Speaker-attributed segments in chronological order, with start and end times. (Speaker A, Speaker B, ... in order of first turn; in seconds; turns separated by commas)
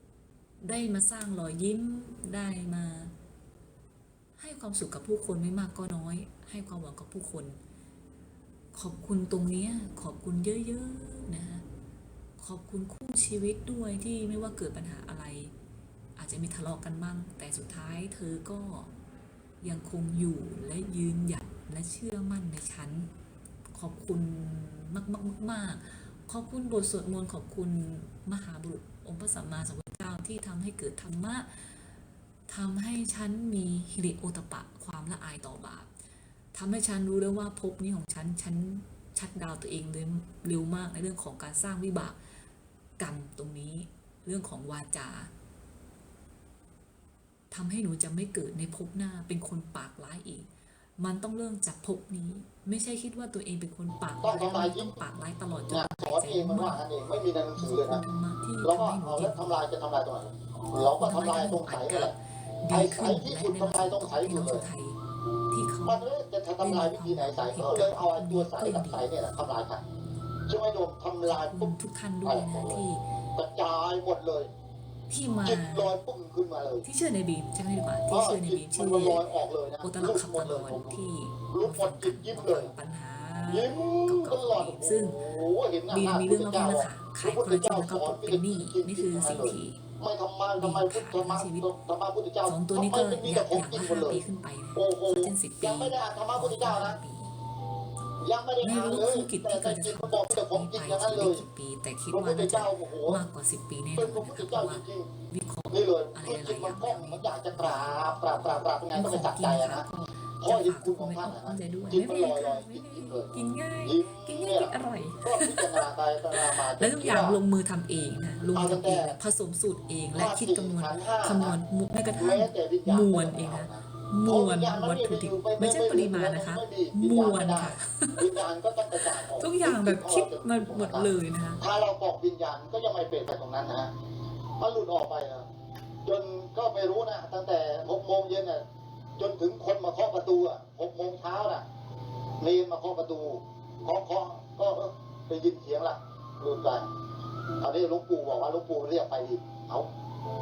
Speaker A: 0.6-3.1, Speaker A: 4.4-7.6, Speaker A: 8.7-11.6, Speaker A: 12.4-15.5, Speaker A: 16.2-18.9, Speaker A: 19.6-23.1, Speaker A: 23.7-31.9, Speaker A: 32.5-35.9, Speaker A: 36.5-42.2, Speaker A: 43.0-45.3, Speaker A: 47.5-56.9, Speaker B: 54.2-55.0, Speaker B: 55.7-58.0, Speaker A: 57.6-59.6, Speaker B: 58.6-62.1, Speaker A: 60.8-65.0, Speaker B: 62.7-64.6, Speaker A: 65.5-66.0, Speaker B: 65.8-69.8, Speaker A: 66.6-69.2, Speaker B: 70.5-71.7, Speaker A: 71.2-73.0, Speaker B: 72.2-74.5, Speaker A: 75.1-76.0, Speaker B: 75.4-76.8, Speaker A: 76.8-79.2, Speaker B: 78.1-82.7, Speaker A: 79.8-85.2, Speaker B: 83.5-94.2, Speaker A: 85.9-89.8, Speaker A: 90.6-91.7, Speaker A: 92.5-97.4, Speaker B: 94.8-97.0, Speaker B: 98.2-101.4, Speaker A: 98.6-128.4, Speaker B: 102.1-103.2, Speaker B: 104.0-105.1, Speaker B: 105.7-109.8, Speaker B: 110.4-113.3, Speaker B: 113.8-117.4, Speaker B: 118.5-119.2, Speaker B: 120.1-121.6, Speaker B: 122.1-133.9, Speaker A: 128.9-131.6, Speaker B: 134.6-135.4, Speaker B: 136.0-138.6, Speaker B: 139.2-141.6, Speaker B: 142.4-146.9, Speaker B: 147.6-149.9